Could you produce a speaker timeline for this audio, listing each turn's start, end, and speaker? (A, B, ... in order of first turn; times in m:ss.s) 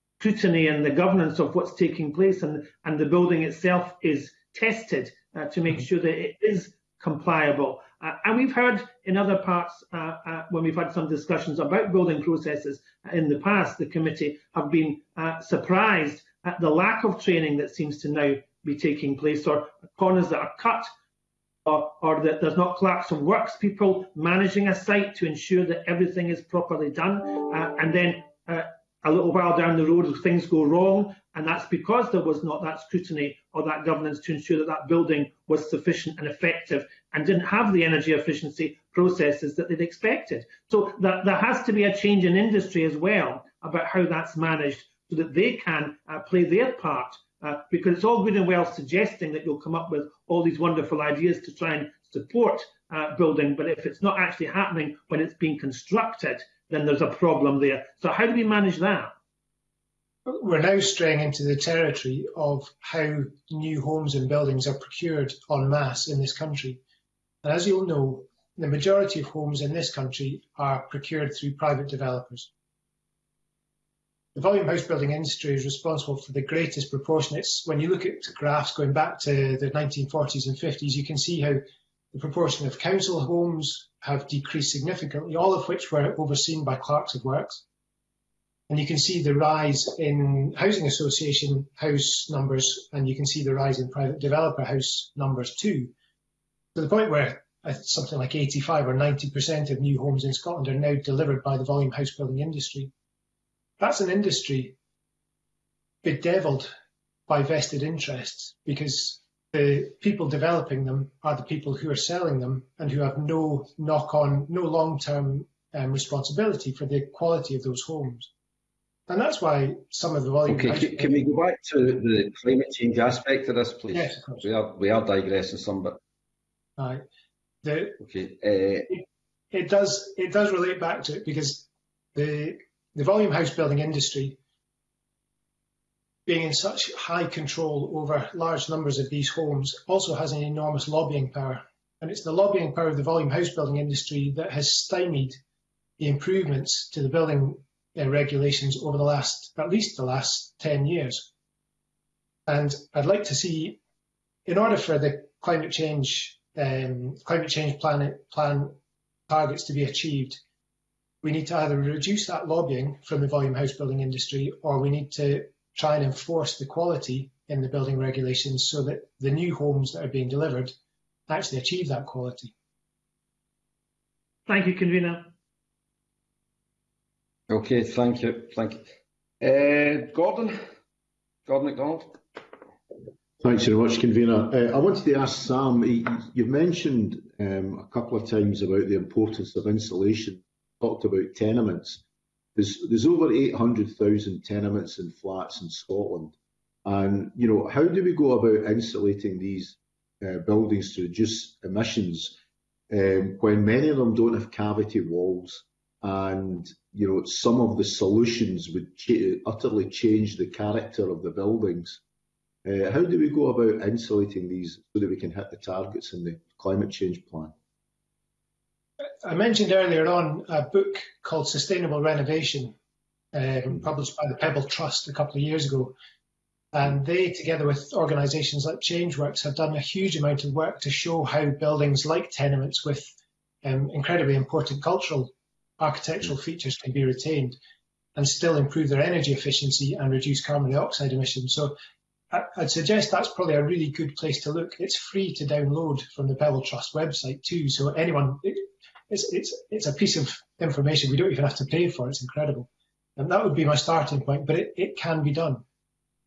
0:00.2-0:20.9 A
0:21.6-0:59.1 A
1:00.3-1:06.8 B
1:07.4-1:12.5 B
1:14.4-1:27.6 B
1:28.7-1:35.9 B
1:36.8-1:42.9 B
1:43.8-1:44.8 B
1:46.0-1:46.7 B
1:47.3-1:58.3 B
1:59.1-2:01.1 B
2:00.5-2:06.0 C
2:03.9-2:04.4 B
2:06.8-2:07.0 B
2:07.6-2:08.0 B
2:08.0-2:09.0 C
2:09.5-2:14.4 B
2:16.3-2:25.4 B
2:26.0-2:31.3 B
2:32.5-2:33.8 B
2:34.5-2:38.8 B
2:39.3-2:40.4 B
2:41.2-2:50.8 B
2:51.3-2:52.5 B
2:54.5-2:55.3 A
2:57.5-3:00.6 C
3:01.5-3:02.2 C
3:03.4-3:12.0 D
3:12.6-3:16.3 D
3:16.8-3:22.4 D
3:22.9-3:32.0 D
3:32.6-3:37.5 D
3:39.2-3:42.8 B
3:43.3-3:45.9 B
3:46.7-3:53.1 B
3:53.6-3:57.6 B
3:58.2-4:01.8 B
4:02.3-4:15.6 B